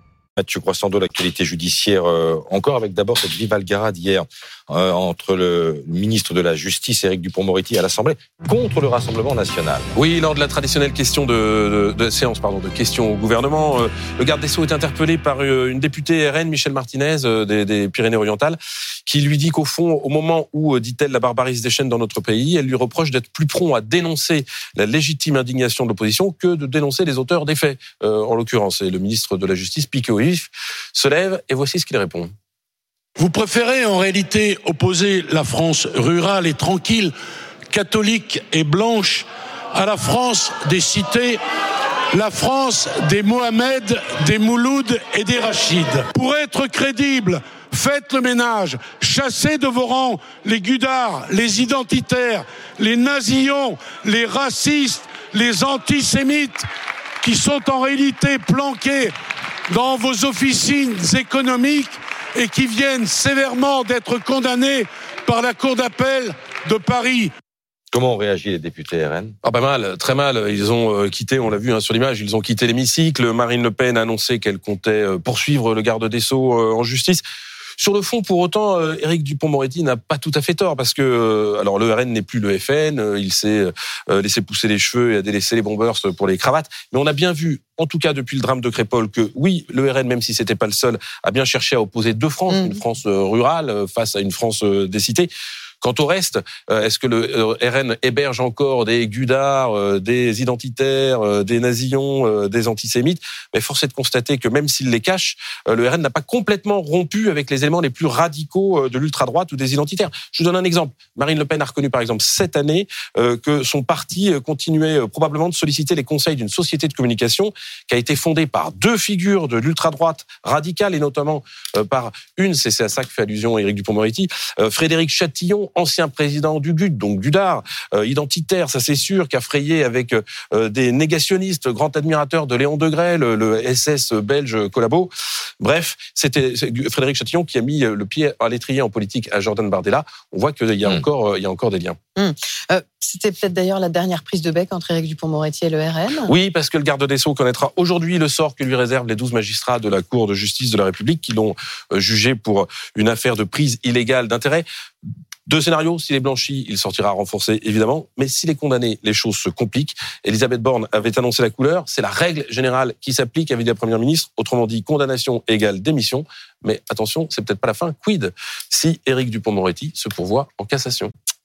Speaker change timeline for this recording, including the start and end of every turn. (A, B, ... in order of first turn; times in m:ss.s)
0:00.4-0:09.9 A
0:09.9-0:32.3 B
0:33.2-0:37.1 C
0:37.7-0:41.4 C
0:42.1-0:56.7 C
0:57.2-0:59.1 C
0:59.7-1:07.3 C
1:07.9-1:09.3 A
1:09.4-1:17.2 B
1:17.8-2:22.0 B
2:22.2-2:26.3 D
2:26.3-2:34.6 B
2:35.5-2:51.1 B